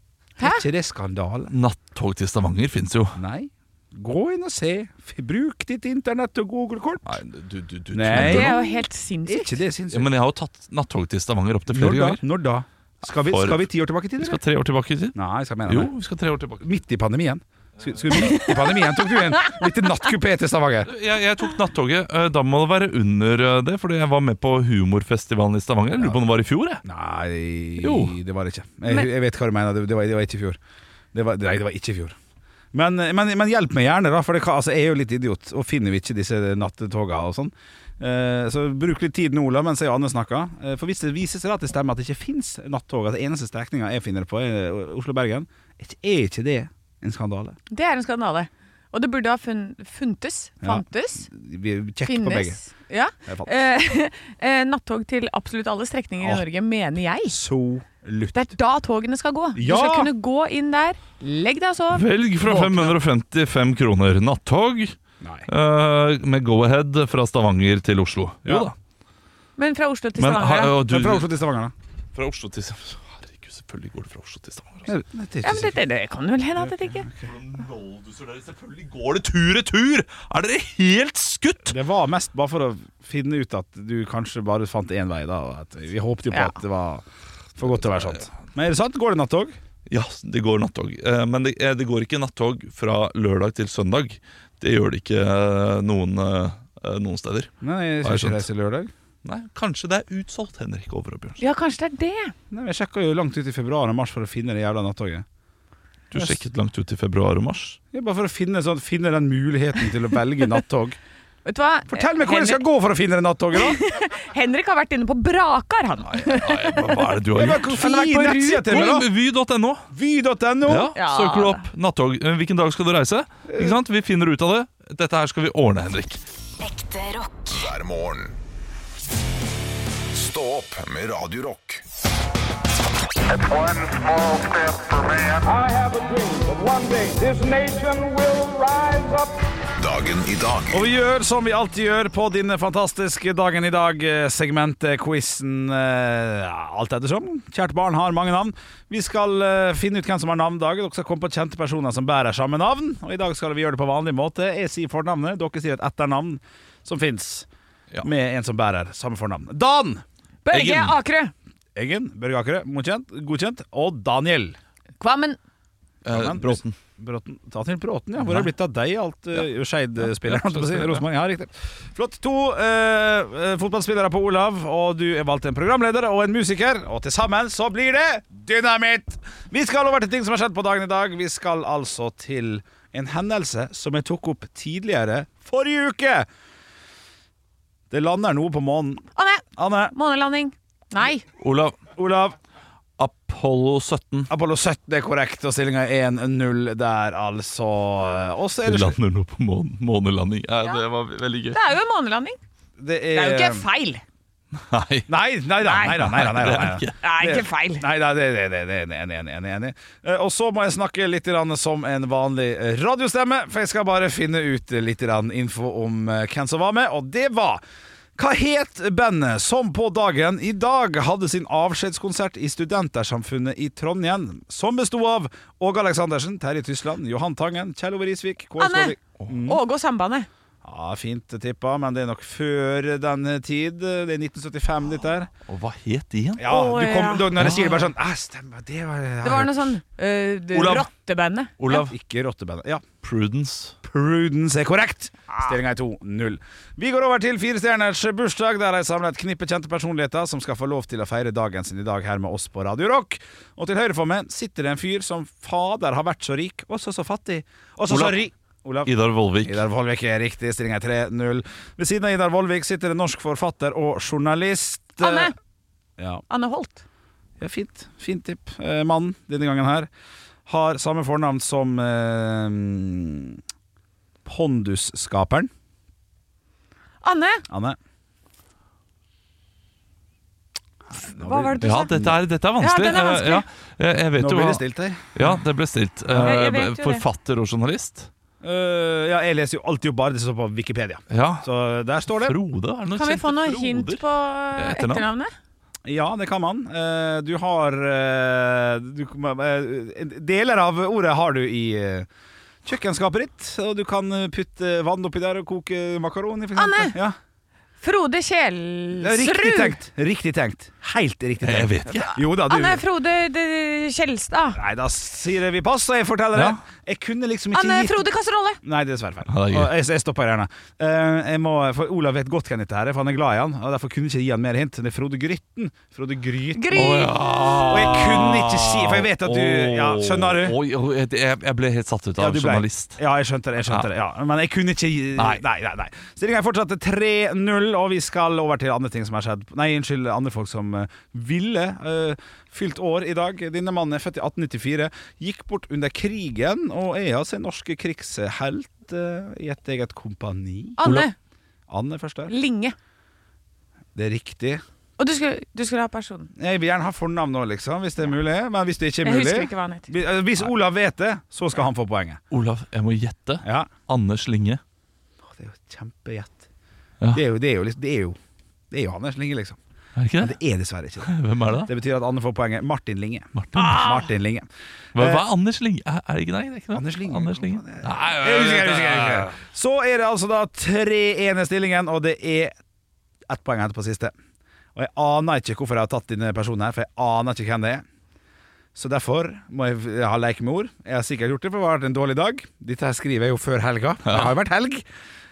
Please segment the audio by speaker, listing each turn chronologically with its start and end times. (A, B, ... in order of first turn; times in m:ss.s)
0:00.4-0:00.6 A
0:00.4-0:01.5 B
0:01.5-0:03.2 C
0:03.2-0:07.2 B
0:07.0-0:08.6 C
0:07.9-0:10.1 B
0:08.1-0:09.6 A
0:09.9-0:12.2 C
0:11.7-0:14.4 B
0:13.3-0:13.6 C
0:14.2-0:16.6 C
0:15.1-0:15.9 B
0:16.6-0:20.9 B
0:20.8-0:26.8 C
0:26.8-0:30.6 B
0:27.8-0:28.2 C
0:31.1-0:32.2 B
0:32.7-0:47.6 B
0:47.7-0:51.3 A
0:50.6-0:52.6 B
0:52.0-0:57.4 A
0:53.2-0:53.5 B
0:57.2-0:58.5 B
0:58.3-1:02.9 A
0:59.5-1:00.1 B
1:01.9-1:05.0 C
1:05.2-1:05.5 B
1:05.5-1:08.7 C
1:08.4-1:08.7 B
1:09.6-1:10.7 A
1:10.2-1:11.3 C
1:10.8-1:11.7 B
1:12.1-1:14.9 C
1:14.8-1:15.8 B
1:15.4-1:17.1 A
1:17.0-1:17.3 B
1:17.2-1:21.8 C
1:21.6-1:27.0 B
1:27.6-1:29.5 B
1:29.9-1:37.5 C
1:37.6-1:38.9 B
1:38.0-1:38.4 C
1:39.2-1:41.4 C
1:41.4-1:42.3 A
1:42.5-1:45.2 B
1:46.1-1:47.8 C
1:46.1-1:46.4 B
1:47.9-1:51.0 B
1:51.4-1:52.6 A
1:51.9-1:53.8 B
1:53.6-1:58.8 A
1:56.0-1:57.8 C
1:57.3-1:59.1 B
1:58.6-1:59.9 C
1:59.9-2:00.9 B
2:00.6-2:06.2 C
2:00.9-2:01.7 A
2:03.5-2:03.8 B
2:06.6-2:08.4 D
2:10.1-2:11.8 D
2:13.3-2:19.3 E
2:19.8-2:20.8 D
2:20.7-2:37.5 B
2:38.0-2:40.0 B
2:40.4-2:41.3 A
2:40.5-2:41.0 C
2:41.8-2:44.6 B
2:45.0-2:45.4 A
2:46.0-2:46.8 C
2:46.1-3:06.3 B
2:48.2-2:48.5 C
2:50.2-2:51.0 C
3:07.9-3:09.0 B
3:09.2-3:11.2 A
3:09.6-3:09.9 B
3:11.4-3:11.8 C
3:11.9-3:12.4 B
3:13.0-3:14.3 C
3:14.3-3:19.0 B
3:18.6-3:21.6 C
3:21.5-3:22.4 A
3:22.8-3:23.6 B
3:23.1-3:24.0 A
3:24.6-3:25.1 C
3:25.1-3:37.6 B
3:25.6-3:26.0 A
3:25.9-3:26.9 C
3:27.0-3:27.8 A
3:38.2-3:49.6 B
3:48.6-3:50.3 A
3:50.6-3:55.3 B
3:55.4-3:56.5 C
3:56.4-3:59.8 B
3:56.4-3:57.6 A
3:57.3-3:57.8 C
3:59.2-4:01.8 A
4:00.5-4:00.9 C
4:01.6-4:01.9 C
4:01.7-4:02.8 B
4:03.0-4:03.8 C
4:03.8-4:25.3 B
4:17.9-4:18.2 C
4:18.8-4:19.6 C
4:25.0-4:25.3 A
4:26.0-4:26.2 B
4:26.3-4:26.8 A
4:27.4-4:29.9 B
4:30.5-4:33.4 B
4:34.2-4:35.5 B
4:37.0-4:37.4 A
4:37.5-4:37.8 B
4:41.0-4:42.2 B
4:41.2-4:42.0 A
4:41.6-4:44.6 C
4:42.6-4:43.4 A
4:44.2-4:45.4 B
4:45.1-4:48.1 C
4:46.1-4:46.4 B
4:46.2-4:47.0 A
4:48.4-4:52.4 B
4:51.1-4:51.5 C
4:52.2-4:55.1 C
4:52.9-4:55.3 A
4:55.8-5:02.1 B
5:02.6-5:07.2 B
5:06.6-5:07.0 A
5:07.8-5:09.7 A
5:09.0-5:12.8 B
5:11.4-5:12.2 C
5:11.9-5:14.6 A
5:14.5-5:18.0 B
5:17.5-5:18.6 A
5:18.6-5:30.6 B
5:19.3-5:19.7 C
5:26.5-5:27.1 A
5:26.7-5:33.0 C
5:32.2-5:50.9 B
5:35.2-5:35.4 C
5:50.8-5:51.1 A
5:50.8-5:51.1 C
5:51.7-5:52.3 B
5:52.3-5:52.7 A
5:53.9-5:54.6 B
5:55.0-5:56.3 A
5:56.4-6:02.2 B
5:59.0-5:59.9 A
6:02.3-6:04.6 C
6:03.4-6:03.7 B
6:05.3-6:06.4 B
6:07.1-6:08.2 B
6:08.7-6:09.6 B
6:10.0-6:10.4 C
6:10.2-6:15.2 B
6:11.0-6:11.7 C
6:13.4-6:13.9 C
6:13.6-6:14.0 A
6:14.9-6:19.3 C
6:16.7-6:22.5 B
6:23.3-6:24.1 B
6:24.7-6:27.8 B
6:28.7-6:34.8 B